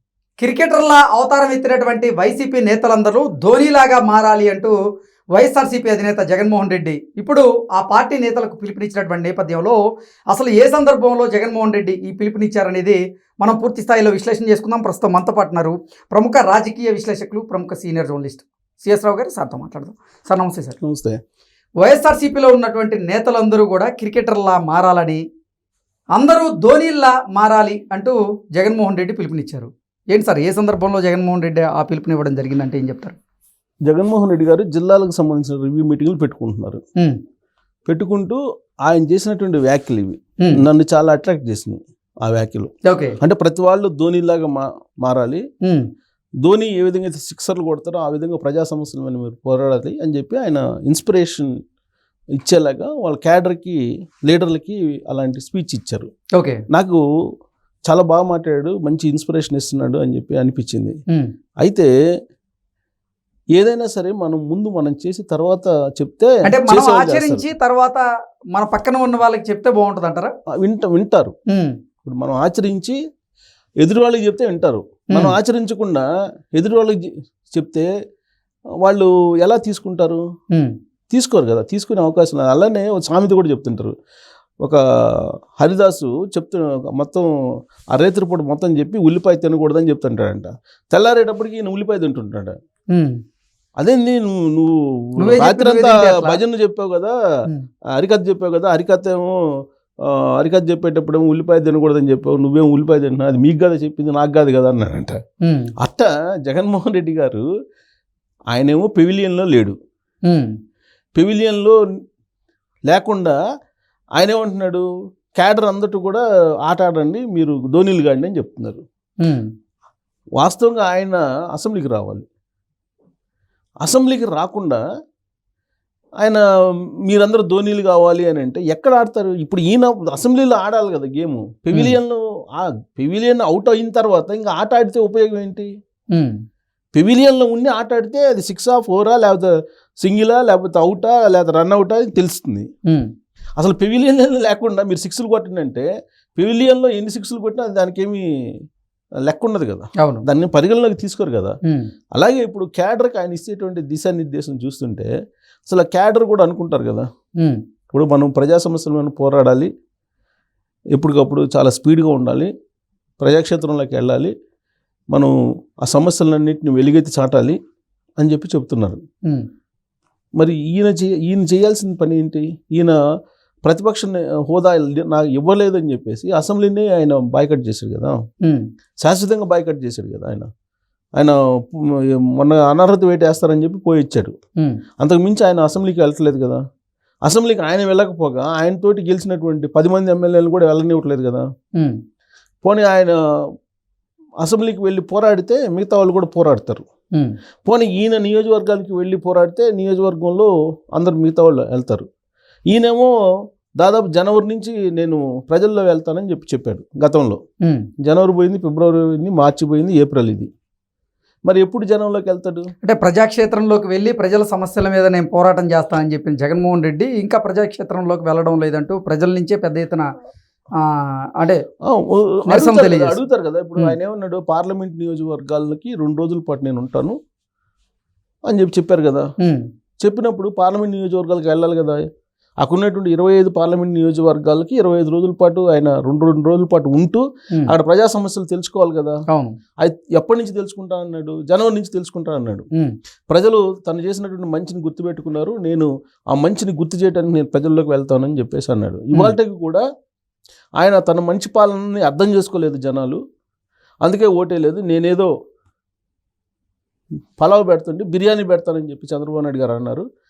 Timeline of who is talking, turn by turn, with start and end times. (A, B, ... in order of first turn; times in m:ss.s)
0:00.4-0:04.7 A
0:05.4-0:09.8 A
0:10.3-0:20.8 A
0:20.8-0:21.2 B
0:21.8-0:25.2 A
0:26.2-0:33.2 A
0:33.9-0:36.8 B
0:37.9-0:45.4 B
0:42.8-0:43.2 A
0:46.4-0:51.6 B
0:52.4-0:56.1 B
0:56.7-0:57.0 B
0:57.9-1:01.0 B
1:01.6-1:01.9 B
1:03.6-1:07.5 B
1:06.4-1:10.3 A
1:10.6-1:11.3 B
1:11.5-1:11.8 A
1:12.0-1:13.0 B
1:13.8-1:17.9 B
1:18.8-1:20.2 B
1:21.1-1:23.9 B
1:24.6-1:27.3 B
1:27.9-1:32.6 B
1:32.9-1:33.2 A
1:33.8-1:37.2 B
1:35.2-1:36.4 A
1:37.9-1:39.4 B
1:40.0-1:45.2 B
1:45.4-1:45.7 A
1:45.8-1:47.5 B
1:48.5-1:49.8 B
1:50.3-1:50.5 A
1:51.2-1:51.8 B
1:52.9-1:53.4 B
1:54.2-1:58.8 B
1:59.2-1:59.5 A
2:00.4-2:02.2 B
2:03.8-2:04.8 B
2:07.0-2:15.7 B
2:11.7-2:12.0 A
2:17.0-2:22.7 B
2:23.6-2:28.2 B
2:29.2-2:31.6 B
2:30.0-2:30.2 A
2:32.1-2:35.1 B
2:35.7-2:37.1 B
2:37.9-2:39.7 B
2:40.9-2:42.5 B
2:43.2-2:44.3 B
2:45.1-2:47.6 B
2:48.2-2:49.0 B
2:50.4-2:53.0 B
2:53.6-2:58.2 B
2:59.0-3:00.5 B
3:01.2-3:04.4 B
3:05.0-3:06.6 B
3:07.2-3:11.5 B
3:12.6-3:13.2 B
3:14.4-3:16.9 B
3:17.7-3:22.1 B
3:22.7-3:23.1 B
3:23.8-3:27.4 B
3:28.0-3:30.5 B
3:31.5-3:32.7 B
3:32.8-3:40.1 A
3:40.8-3:41.6 A
3:41.8-3:47.2 B
3:42.5-3:43.2 A
3:48.5-3:49.3 B
3:49.4-3:49.7 A
3:50.0-3:52.0 B
3:52.6-3:59.2 B
3:59.3-3:59.6 A
3:59.8-4:02.7 B
4:03.3-4:09.8 B
4:10.8-4:13.2 B
4:14.0-4:15.3 B
4:17.4-4:20.0 B